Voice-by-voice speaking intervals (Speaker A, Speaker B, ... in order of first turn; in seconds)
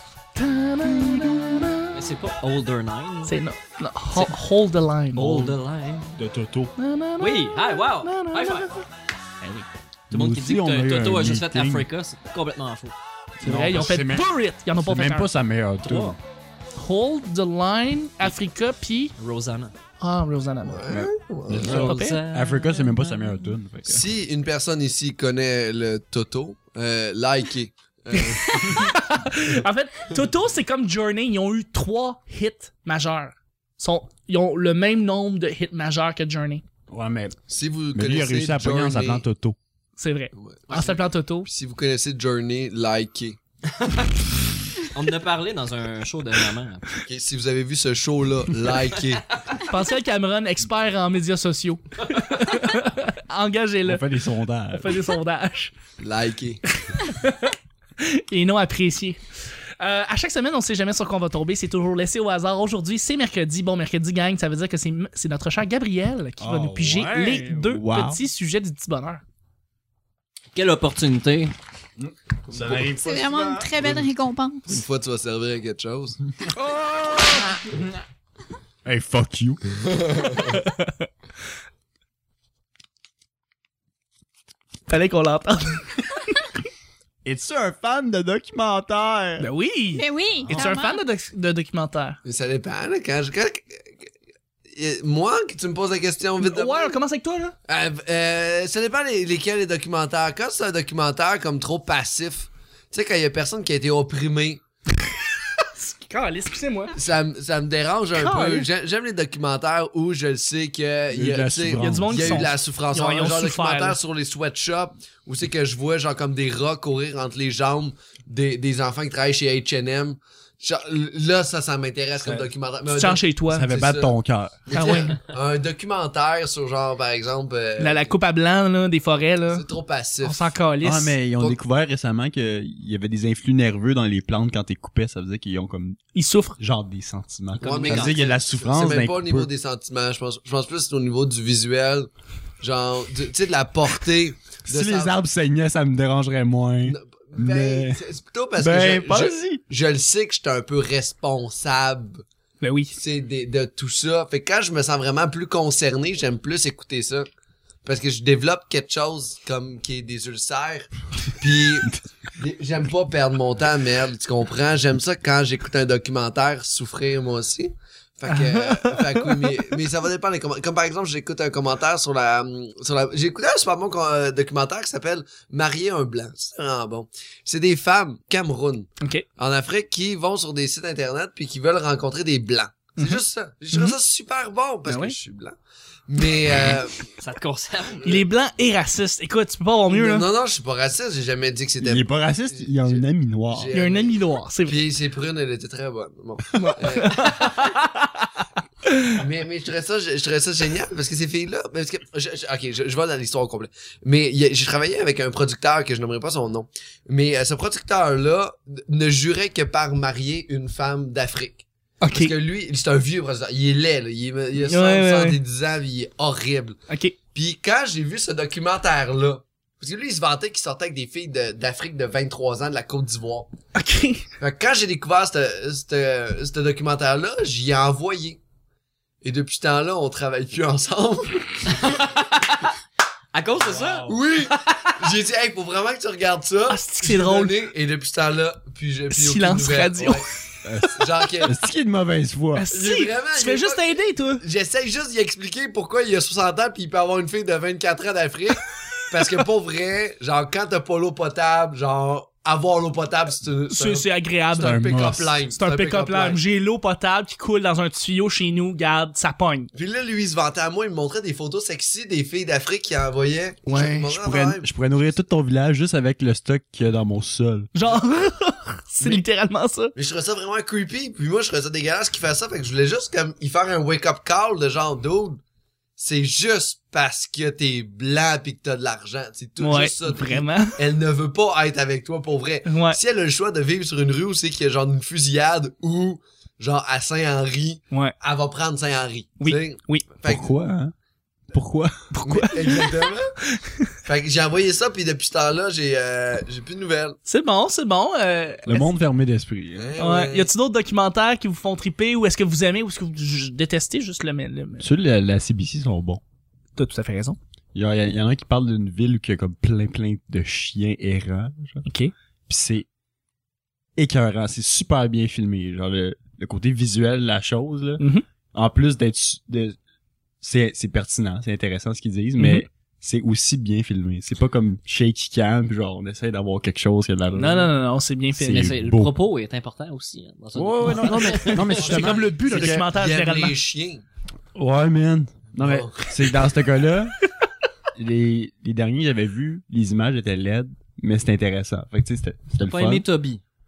Speaker A: 0.3-1.9, 3.3-5.4, 6.8-8.8, 9.4-9.7, 13.4-15.3, 16.8-19.1, 20.0-20.8, 21.7-22.2, 28.1-36.6, 40.0-41.5, 49.7-54.0, 54.7-55.7, 56.8-59.2, 59.8-69.2, 80.6-81.1, 84.9-86.0, 89.4-92.2, 96.4-97.5, 105.6-107.0, 108.1-108.7, 111.8-114.0, 122.9-123.7, 124.7-125.2, 127.8-129.7, 130.2-131.2, 136.2-136.6, 152.6-153.0, 168.3-169.7, 184.9-185.2, 188.0-190.3, 193.7-194.8, 196.6-198.3, 212.0-212.3, 214.6-215.4, 216.9-217.2, 223.8-224.3, 236.7-237.5, 239.1-240.4, 242.6-244.4, 253.7-255.0, 255.5-259.7, 267.8-269.9, 279.6-280.8, 282.7-283.0, 289.4-290.1, 292.1-293.8, 297.3-298.9, 300.0-304.9, 306.8-307.4, 311.9-312.1, 318.0-318.2, 322.4-322.7, 327.4-328.7, 330.9-333.6
Speaker B: 1.9-3.4, 5.2-6.2, 7.2-8.7, 10.1-12.9, 15.8-16.2, 19.2-19.8, 21.5-23.0, 40.7-41.0, 43.7-47.0, 70.5-71.5, 137.6-138.3, 187.2-188.2, 231.7-232.7, 233.3-234.7, 328.5-331.8, 342.6-343.4
Speaker C: 5.2-5.6, 6.2-6.7, 10.1-11.9, 13.4-16.2, 20.9-24.1, 36.9-37.4, 37.9-39.6, 53.9-55.0, 66.4-68.2, 72.0-74.0, 76.4-78.0, 78.8-79.6, 87.2-89.5, 111.1-112.5, 122.2-122.5, 123.5-124.7, 130.8-136.0, 136.6-139.5, 144.7-148.0, 148.6-149.6, 191.8-193.7, 233.6-234.2, 240.7-242.7, 254.6-255.4, 263.7-267.7, 290.3-290.9, 291.5-292.1, 298.7-300.0, 304.8-306.2, 307.7-311.9, 312.5-312.9, 314.0-319.8, 320.4-327.7, 328.3-329.1, 330.6-332.9, 334.6-337.1, 338.0-343.1
Speaker D: 20.6-21.9, 23.9-29.0, 37.5-39.2, 40.3-40.8, 41.5-43.4, 47.0-49.3, 56.0-56.6, 72.5-72.8, 74.7-76.2, 80.1-80.4, 92.2-94.0, 94.7-97.0, 97.7-104.6, 107.0-124.1, 124.7-128.1, 129.5-130.4, 137.6-142.1, 142.6-145.1, 146.8-152.2, 152.9-157.3, 157.8-187.1, 189.9-197.6, 199.1-216.8, 217.3-223.5, 224.4-228.4, 229.2-232.0, 234.1-240.3, 240.8-241.6, 242.7-256.4, 259.7-264.7, 270.0-275.4, 276.0-290.5, 292.2-293.3, 294.1-297.2, 299.8-300.5, 332.0-334.0, 335.6-336.0
Speaker E: 72.9-74.8, 90.0-91.0